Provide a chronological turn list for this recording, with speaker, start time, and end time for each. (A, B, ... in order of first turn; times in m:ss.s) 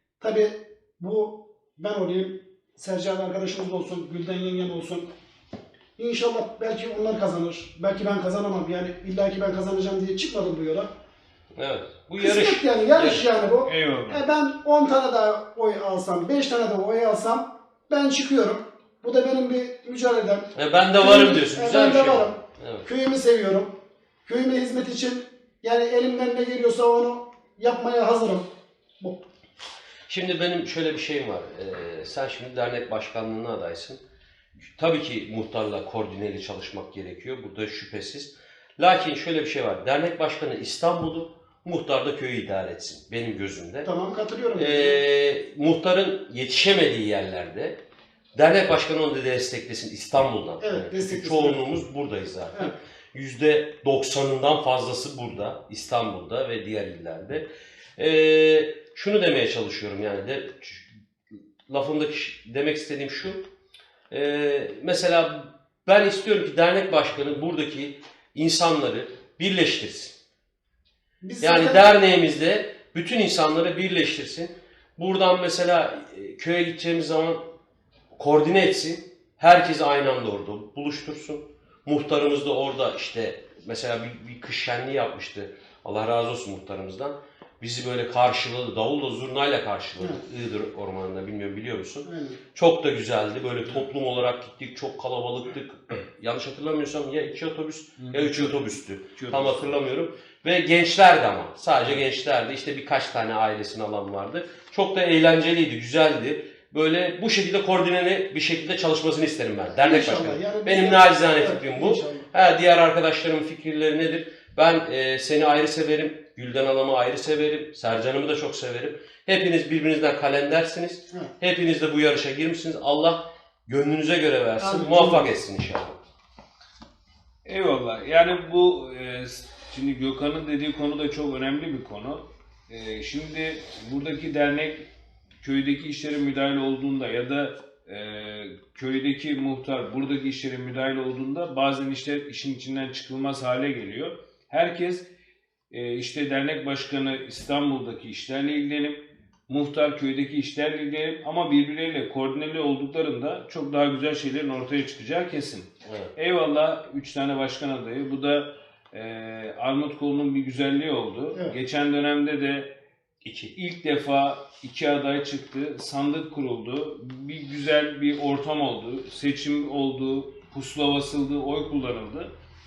0:00.2-0:05.1 A
0:06.0-0:10.9 A
0:11.6-0:13.3 B
0:12.2-0:28.5 A
0:13.6-0:14.2 C
0:20.6-0:22.9 B
0:29.0-0:29.2 A
0:30.1-0:34.0 B
0:34.8-0:43.9 B
0:43.8-0:45.0 A
0:44.5-0:47.8 B
0:48.4-0:57.5 B
0:50.6-0:51.7 A
0:58.0-1:00.9 B
1:01.7-1:03.4 B
1:04.1-1:10.1 B
1:11.2-1:12.0 A
1:11.4-1:17.4 B
1:18.2-2:06.0 B
1:32.0-1:32.4 A
1:38.0-1:39.7 C
1:49.8-1:52.3 A
2:04.6-2:05.2 A
2:07.4-2:14.9 C
2:15.4-2:25.0 C
2:25.7-2:42.7 C
2:35.8-2:36.1 B
2:43.2-2:43.5 B
2:43.4-2:52.3 C